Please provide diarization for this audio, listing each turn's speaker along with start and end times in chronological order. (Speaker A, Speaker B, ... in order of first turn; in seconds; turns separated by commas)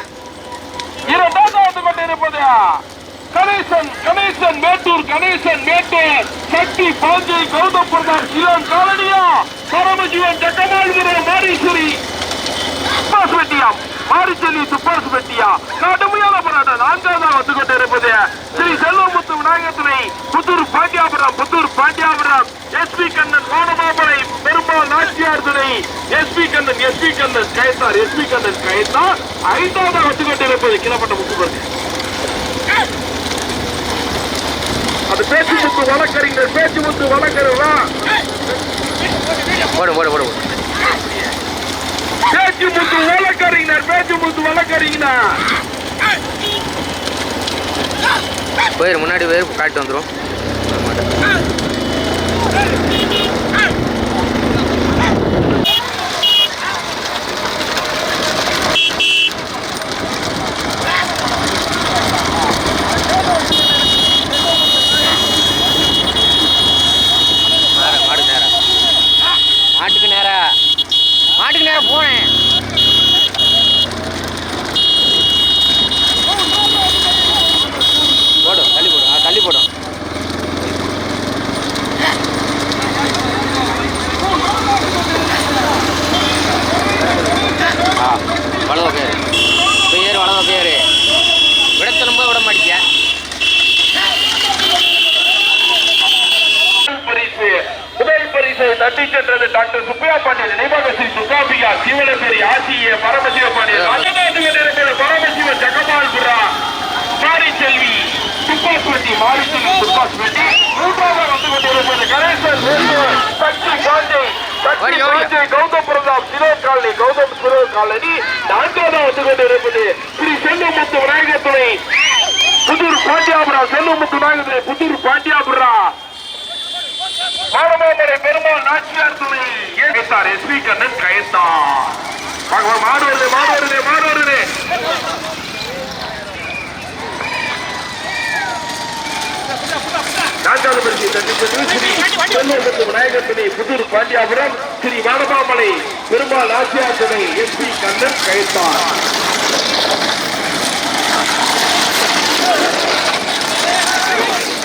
Speaker A: 1.1-12.0, Speaker A: 13.1-31.7, Speaker A: 35.1-37.9, Speaker B: 39.7-40.5, Speaker A: 42.3-45.4, Speaker B: 48.8-50.1, Speaker B: 50.7-51.1, Speaker B: 67.7-68.5, Speaker B: 69.7-70.6, Speaker B: 71.3-72.3, Speaker B: 78.4-79.7, Speaker B: 88.0-89.2, Speaker B: 89.8-90.9, Speaker B: 91.8-92.8, Speaker A: 96.8-106.5, Speaker B: 103.7-104.1, Speaker A: 107.2-121.8, Speaker B: 114.8-115.3, Speaker A: 122.7-126.0, Speaker A: 127.5-134.5, Speaker A: 140.4-148.9